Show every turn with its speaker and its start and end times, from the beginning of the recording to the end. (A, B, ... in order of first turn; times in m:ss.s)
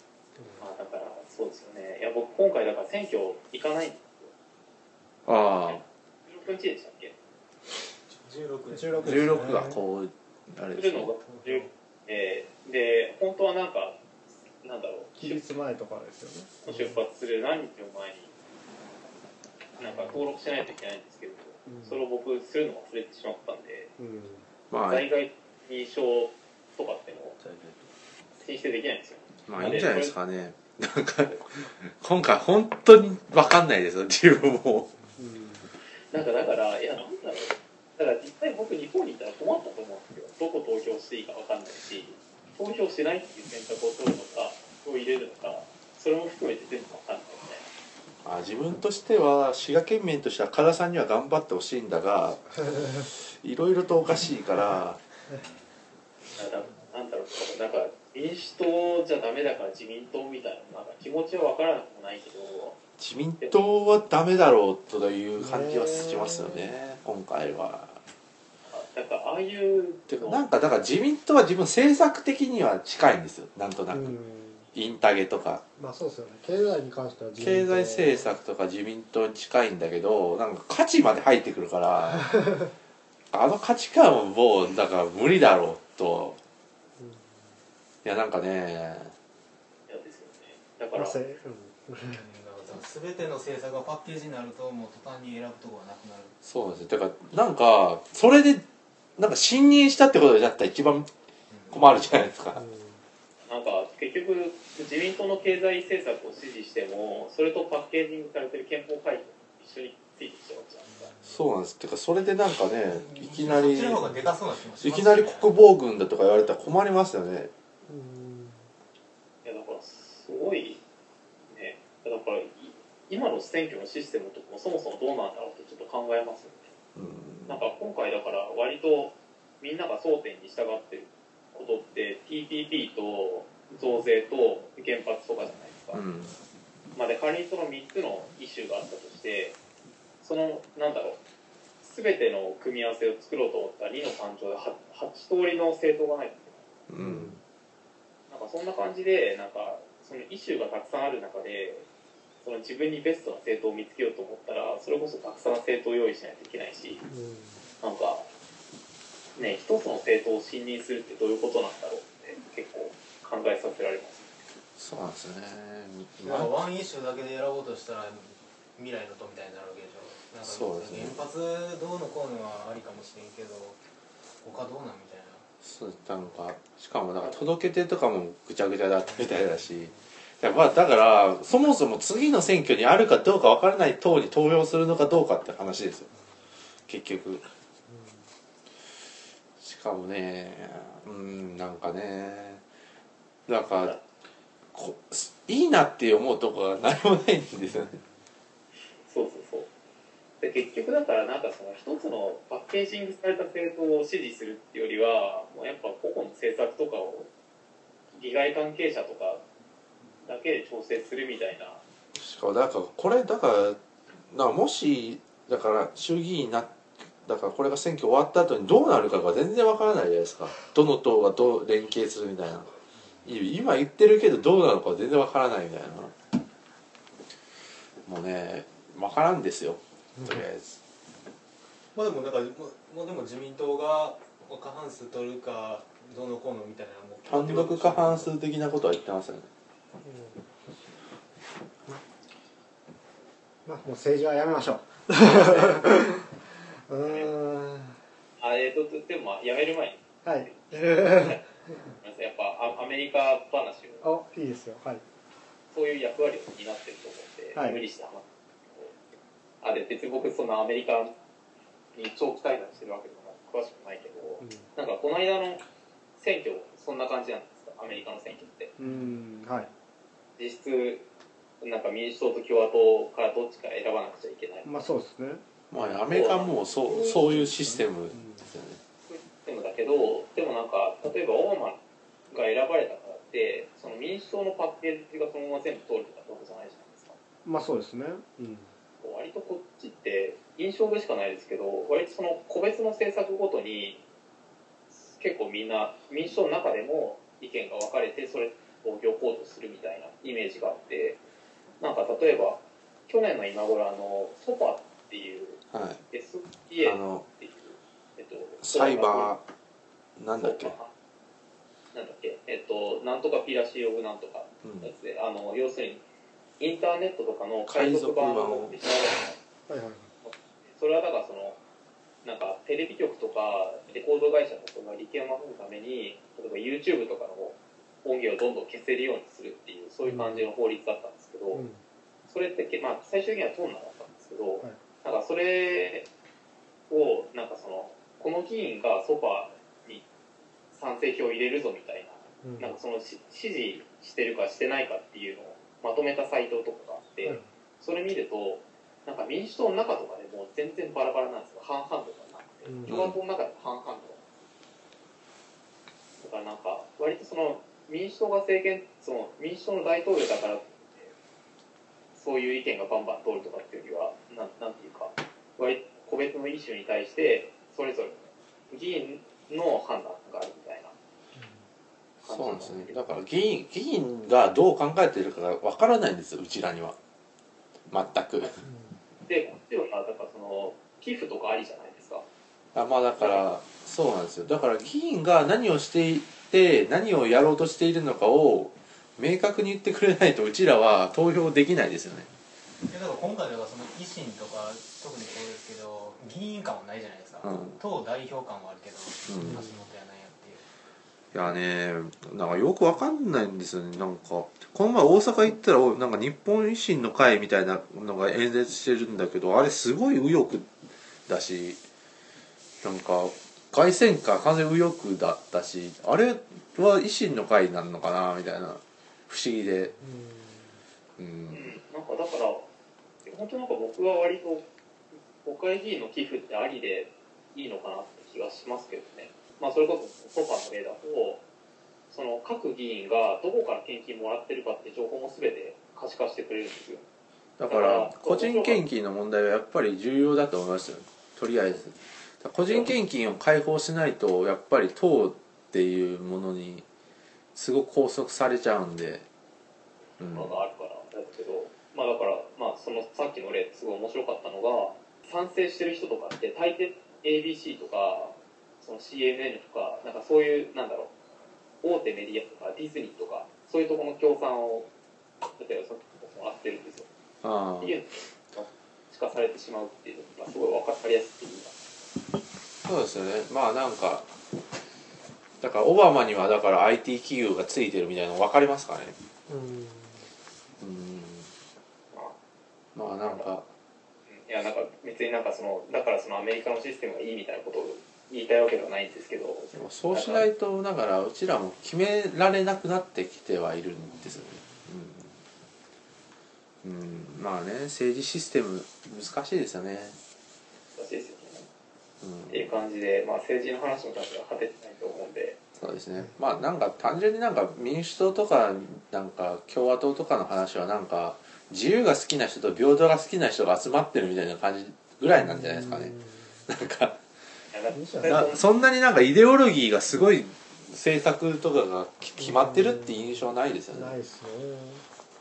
0:00.6-0:04.3 A
0:05.2-0:05.8 B
0:05.6-0:07.1 A
0:08.1-0:09.7 C
0:08.7-0:09.8 D
0:09.0-0:11.1 B
0:10.7-0:14.0 A
0:11.3-0:11.7 C
0:14.6-0:15.4 A
0:15.2-0:16.9 D
0:16.6-0:18.3 A
0:19.8-0:23.9 A
0:21.7-0:22.0 D
0:24.0-0:24.4 D
0:24.7-0:25.1 B
0:24.9-0:27.4 A
0:27.4-0:27.8 B
0:28.4-0:30.2 A
0:29.5-0:34.9 B
0:35.2-0:35.7 D
0:36.1-0:47.6 A
0:48.2-0:55.0 B
0:56.4-1:02.8 A
1:03.0-1:08.0 B
1:05.4-1:06.7 D
1:08.7-1:10.4 A
1:10.1-1:14.1 B
1:13.9-1:14.6 D
1:14.7-1:15.6 B
1:15.8-1:18.3 D
1:17.4-1:22.4 B
1:22.1-1:22.7 D
1:23.3-1:26.4 B
1:27.0-1:27.3 D
1:28.0-1:29.1 B
1:29.9-1:31.2 A
1:30.9-1:32.2 D
1:32.1-1:36.3 C
1:36.4-1:38.6 B
1:39.2-1:41.1 B
1:41.5-1:41.8 C
1:41.7-1:42.6 B
1:42.6-1:43.0 D
1:43.4-1:51.1 A
1:51.2-1:54.2 B
1:52.8-1:55.5 C
1:54.8-1:57.5 B
1:57.8-1:58.7 D
1:59.4-2:00.8 A
2:01.5-2:06.7 A
2:07.0-2:07.6 B
2:07.5-2:16.0 A
2:15.9-2:16.4 B
2:16.9-2:19.6 A
2:20.2-2:21.2 A
2:21.8-2:26.7 A
2:26.9-2:27.4 B
2:27.0-2:27.4 D
2:28.3-2:31.8 A
2:32.4-2:37.0 A
2:37.1-2:37.6 D
2:37.8-2:38.3 A
2:39.4-2:44.3 A
2:44.8-2:46.5 B
2:46.2-2:53.8 C
2:50.4-2:51.2 B
2:54.4-2:55.4 C
2:55.6-3:06.1 B
3:06.9-3:07.4 B
3:07.9-3:08.2 D
3:09.6-3:12.6 B
3:13.5-3:14.0 B
3:14.7-3:18.0 B
3:19.0-3:19.7 A
3:20.4-3:27.3 A
3:28.1-3:29.4 A
3:30.2-3:31.8 A
3:32.2-3:33.8 B
3:34.3-3:36.7 B
3:37.2-3:42.7 B
3:43.2-3:46.1 B
3:48.0-3:50.8 B
3:50.2-3:50.4 D
3:51.9-3:58.3 C
3:57.2-3:59.5 B
4:00.0-4:00.4 D
4:03.6-4:08.0 D
4:05.2-4:05.9 A
4:07.0-4:07.3 A
4:08.4-4:11.4 A
4:10.2-4:11.4 D
4:12.0-4:14.0 A
4:14.0-4:15.0 D
4:15.7-4:18.9 A
4:17.5-4:17.8 D
4:19.6-4:21.1 A
4:21.9-4:25.6 A
4:26.2-4:28.7 A
4:28.8-4:29.7 D
4:30.4-4:31.0 A
4:31.6-4:34.7 A
4:34.6-4:35.4 D
4:35.7-4:38.8 B
4:36.1-4:37.2 A
4:37.0-4:38.5 D
4:39.1-4:41.8 A
4:42.3-4:47.2 A
4:47.4-4:48.7 D
4:49.0-4:54.0 A
4:55.0-5:01.2 A
5:01.8-5:05.6 A
5:05.7-5:06.0 B
5:06.1-5:09.3 A
5:06.8-5:07.2 B
5:08.6-5:09.4 B
5:10.2-5:10.7 B
5:10.4-5:10.9 A
5:11.9-5:16.0 A
5:14.6-5:14.9 B
5:16.6-5:19.3 A
5:17.7-5:18.8 B
5:19.7-5:20.1 D
5:20.2-5:21.6 A
5:22.2-5:31.6 A
5:30.0-5:30.5 D
5:31.5-5:31.8 D
5:32.3-5:36.1 A
5:36.9-5:40.0 A
5:40.7-5:54.3 A
5:42.4-5:42.7 D
5:52.6-5:53.0 D
5:52.9-5:53.2 B
5:56.2-6:01.1 A
6:02.1-6:10.9 A
6:11.3-6:11.6 D
6:12.2-6:13.0 A
6:12.2-6:17.0 B
6:17.9-6:18.6 B
6:18.6-6:19.0 D
6:19.2-6:22.2 A
6:22.7-6:32.3 B
6:23.2-6:23.4 A
6:32.9-6:40.6 C
6:37.4-6:37.8 B
6:39.3-6:39.6 B
6:39.4-6:39.7 D
6:41.3-6:50.6 B
6:51.3-6:51.8 B
6:52.8-6:59.9 B
7:00.0-7:00.8 D
7:01.2-7:01.7 B
7:01.5-7:02.6 A
7:03.2-7:04.6 A
7:05.4-7:11.4 A
7:12.1-7:17.1 A
7:17.6-7:26.8 B
7:17.6-7:18.8 A
7:27.5-7:29.2 B
7:30.2-7:30.6 B
7:30.2-7:41.1 A
7:41.8-7:44.9 A
7:45.6-7:47.1 A
7:47.4-7:47.9 B
7:47.8-7:51.7 A
7:52.8-7:54.3 B
7:55.6-7:59.2 B
7:59.5-8:00.3 D
8:00.8-8:01.5 B
8:02.9-8:03.7 B
8:04.3-8:10.4 A
8:09.7-8:15.3 B
8:16.8-8:20.2 B
8:20.9-8:21.7 A
8:22.2-8:22.6 B
8:22.5-8:25.6 A
8:25.8-8:36.2 B
8:35.4-8:36.5 D
8:36.7-8:37.2 B
8:37.7-8:38.6 A
8:37.9-8:38.5 D
8:38.2-8:44.1 B
8:42.4-8:43.3 D
8:43.9-8:45.0 D